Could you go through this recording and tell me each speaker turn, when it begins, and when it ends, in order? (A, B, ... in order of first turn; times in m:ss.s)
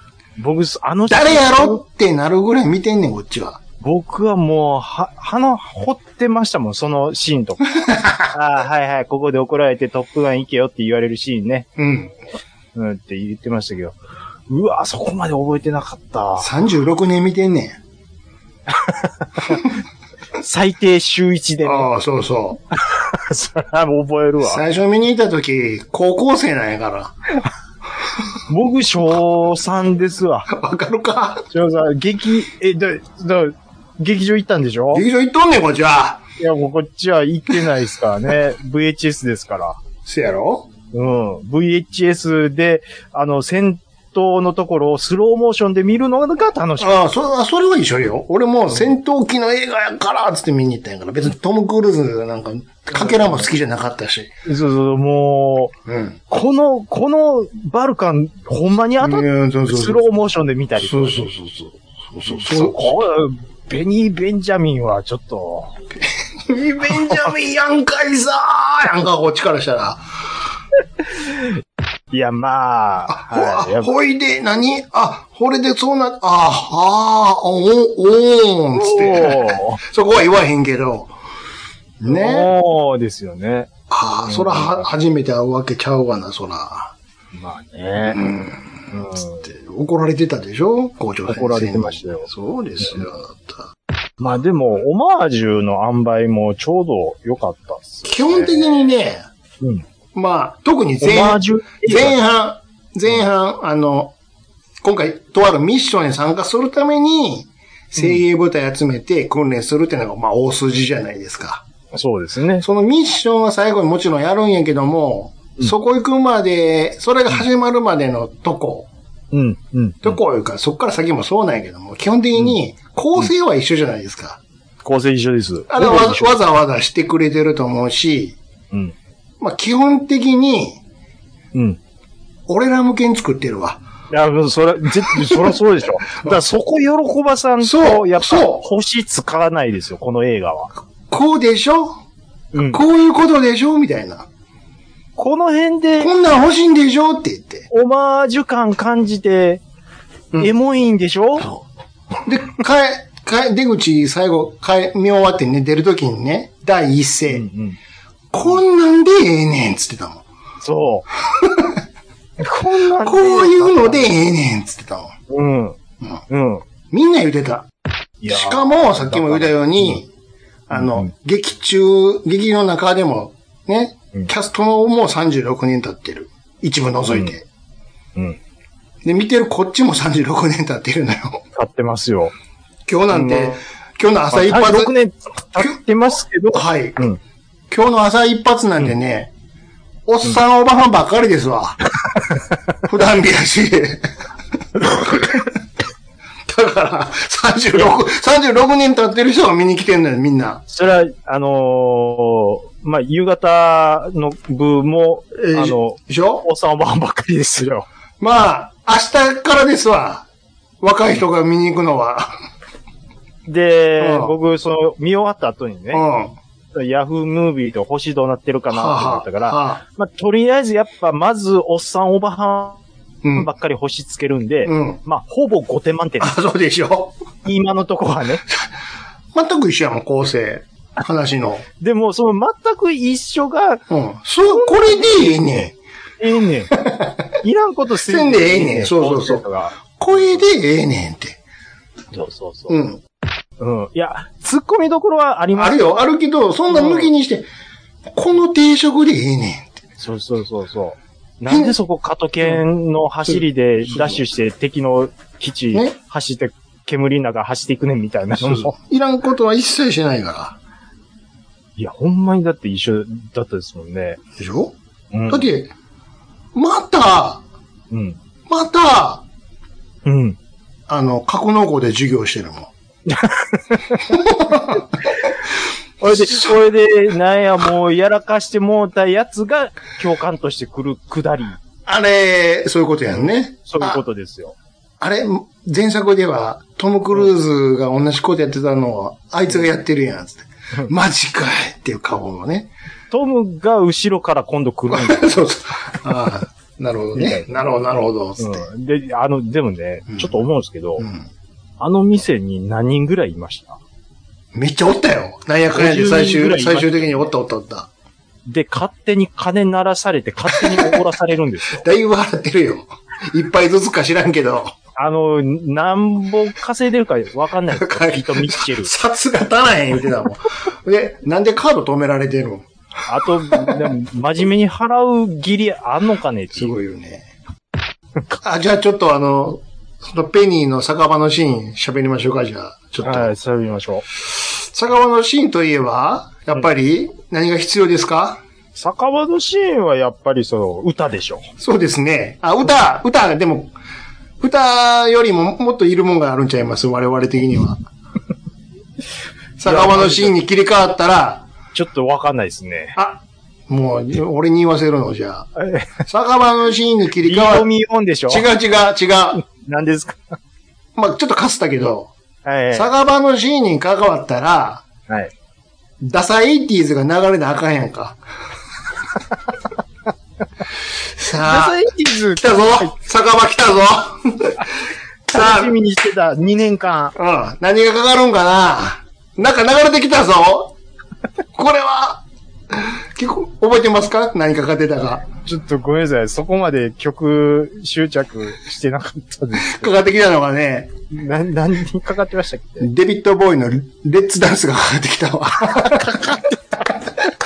0:00.4-0:01.8 A
0:01.1-0:03.6 B
0:03.8-0:07.7 A
0:07.8-0:08.3 B
0:08.3-0:11.7 A
0:11.8-0:12.1 B
0:12.7-0:14.0 A
0:14.5-0:16.5 A
0:16.4-0:17.8 B
0:18.8-0:19.7 A
0:20.4-0:21.9 A
0:21.6-0:22.6 B
0:22.9-0:24.6 A
0:24.4-0:27.2 B
0:28.5-0:30.5 A
0:30.5-0:31.5 B
0:31.5-0:35.0 A
0:34.9-0:36.2 B
0:36.4-0:39.8 A
0:40.0-0:40.7 B
0:40.9-0:47.0 A
0:46.8-0:54.3 B
0:54.4-0:55.8 A
0:55.9-0:56.2 B
0:56.3-1:01.2 A
0:59.0-1:00.0 B
1:00.8-1:02.9 B
1:02.3-1:05.7 A
1:06.4-1:10.0 B
1:12.1-1:13.9 A
1:13.1-1:21.1 B
1:18.8-1:19.8 A
1:22.0-1:22.5 B
1:22.0-1:23.7 A
1:23.9-1:26.9 B
1:24.2-1:24.9 A
1:27.4-1:28.2 A
1:28.1-1:33.7 B
1:28.9-1:29.4 A
1:31.3-1:32.3 A
1:34.2-1:38.6 A
1:38.0-1:39.2 B
1:40.1-1:44.1 B
1:41.0-1:42.2 A
1:44.8-1:51.6 B
1:51.9-1:52.6 A
1:52.6-1:58.9 B
1:59.3-2:00.2 A
2:00.0-2:04.4 B
2:04.8-2:06.4 A
2:05.7-2:08.4 B
2:09.4-2:10.8 B
2:11.5-2:11.8 A
2:12.5-2:13.8 B
2:14.1-2:20.7 A
2:15.1-2:15.6 B
2:17.6-2:18.6 B
2:21.1-2:22.0 B
2:22.5-2:22.8 A
2:22.6-2:24.3 B
2:25.2-2:26.1 A
2:26.0-2:27.7 B
2:27.7-2:29.6 A
2:30.4-2:31.5 A
2:32.2-2:37.4 B
2:37.3-2:37.8 A
2:38.3-2:40.2 B
2:40.6-2:41.1 A
2:41.3-2:41.8 B
2:42.4-2:44.1 A
2:42.9-2:45.1 B
2:45.3-2:45.8 A
2:46.3-2:46.6 A
2:46.9-2:47.7 B
2:48.2-2:50.0 A
2:48.2-2:50.1 B
2:50.7-2:57.4 B
2:50.7-2:51.1 A
2:57.1-2:57.3 A
2:59.0-3:01.4 B
3:01.5-3:02.3 A
3:02.9-3:04.9 B
3:03.1-3:03.5 A
3:04.3-3:07.2 A
3:06.5-3:07.0 B
3:07.7-3:09.3 B
3:10.0-3:11.8 B
3:12.8-3:14.0 B
3:14.8-3:15.5 B
3:16.5-3:20.6 B
3:20.7-3:27.9 A
3:25.4-3:26.4 B
3:28.2-3:30.3 B
3:30.8-3:32.4 B
3:33.5-3:36.0 A
3:34.0-3:34.3 B
3:35.9-3:36.4 B
3:36.7-3:42.8 A
3:38.7-3:39.8 B
3:43.2-3:43.5 B
3:43.3-3:46.4 A
3:44.6-3:45.0 B
3:46.2-3:47.1 B
3:47.4-3:48.4 A
3:49.3-3:51.6 B
3:51.8-3:53.8 A
3:53.9-3:55.7 B
3:54.4-3:55.5 A
3:56.2-3:56.8 A
3:56.7-3:57.3 B
3:57.4-3:59.8 A
3:58.0-4:01.4 B
4:02.1-4:02.8 A
4:02.7-4:03.0 B
4:03.6-4:06.0 A
4:05.6-4:07.5 B
4:06.7-4:07.1 A
4:08.1-4:09.8 B
4:10.0-4:18.7 A
4:11.5-4:11.7 B
4:13.2-4:14.2 B
4:18.4-4:20.6 B
4:21.8-4:24.2 A
4:24.4-4:24.7 B
4:25.1-4:25.5 A
4:25.3-4:25.7 B
4:26.5-4:27.4 B
4:27.9-4:28.2 A
4:28.5-4:29.2 B
4:30.0-4:30.4 A
4:30.9-4:32.7 B
4:33.1-4:34.2 A
4:34.1-4:34.9 B
4:36.0-4:41.6 A
4:36.1-4:36.4 B
4:41.8-4:44.0 B
4:43.2-4:44.5 A
4:45.0-4:52.7 B
4:53.1-4:55.4 A
4:54.9-4:58.6 B
4:57.1-4:57.6 A
4:58.4-5:01.0 A
5:00.1-5:00.4 B
5:01.0-5:01.2 B
5:01.8-5:03.8 A
5:04.5-5:07.9 B
5:05.7-5:07.2 A
5:08.4-5:11.8 A
5:10.5-5:11.0 B
5:11.8-5:14.7 B
5:15.0-5:18.9 A
5:17.7-5:22.6 B
5:23.1-5:26.7 A
5:23.5-5:23.8 B
5:26.5-5:27.3 B
5:28.4-5:33.3 B
5:33.0-5:34.0 A
5:34.4-5:38.4 B
5:38.7-5:41.5 A
5:41.6-5:43.7 B
5:44.4-5:47.8 B
5:49.6-5:51.4 B
5:49.6-5:50.3 A
5:51.7-5:53.0 A
5:53.0-5:55.5 B
5:55.6-5:56.0 A
5:56.0-5:57.7 B
5:57.2-5:58.5 A
5:58.3-5:59.4 B
5:59.5-6:00.4 A
6:00.9-6:02.1 B
6:02.4-6:02.9 A
6:02.7-6:04.9 B
6:06.0-6:08.2 B
6:11.2-6:14.6 B
6:11.3-6:12.9 A
6:15.3-6:15.7 B
6:15.3-6:17.1 A
6:17.1-6:20.7 B
6:21.5-6:25.3 B
6:25.4-6:30.0 A
6:29.5-6:30.9 B
6:31.1-6:32.9 A
6:32.8-6:36.4 B
6:35.8-6:36.5 A